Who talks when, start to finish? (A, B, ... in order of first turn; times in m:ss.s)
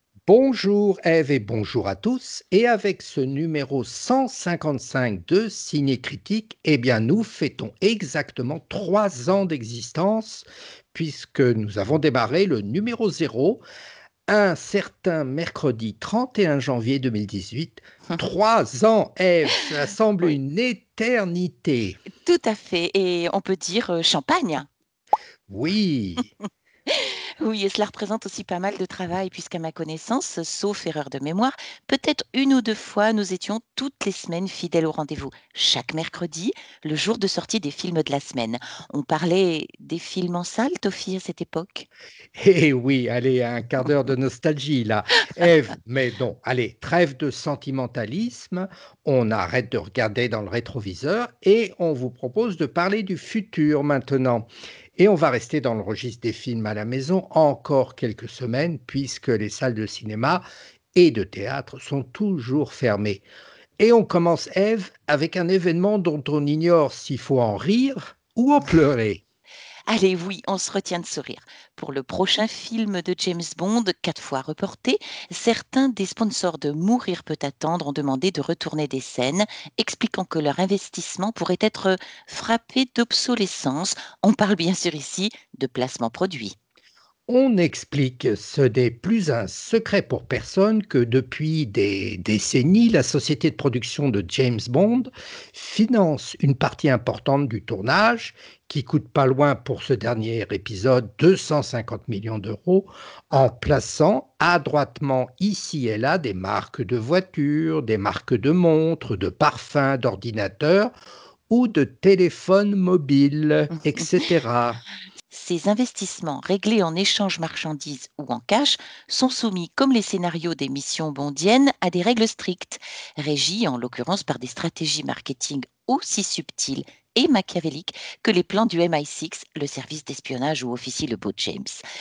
0:00.3-0:13.6 A
0:14.3-0:22.0 A
0:22.2-0:24.7 B
0:25.5-0:26.3 A
0:26.9-0:41.9 B
0:42.4-1:00.4 A
1:01.0-1:03.2 A
1:03.8-1:09.2 A
1:09.9-1:26.6 B
1:27.3-1:50.9 A
1:51.5-1:54.8 A
1:55.3-2:11.8 B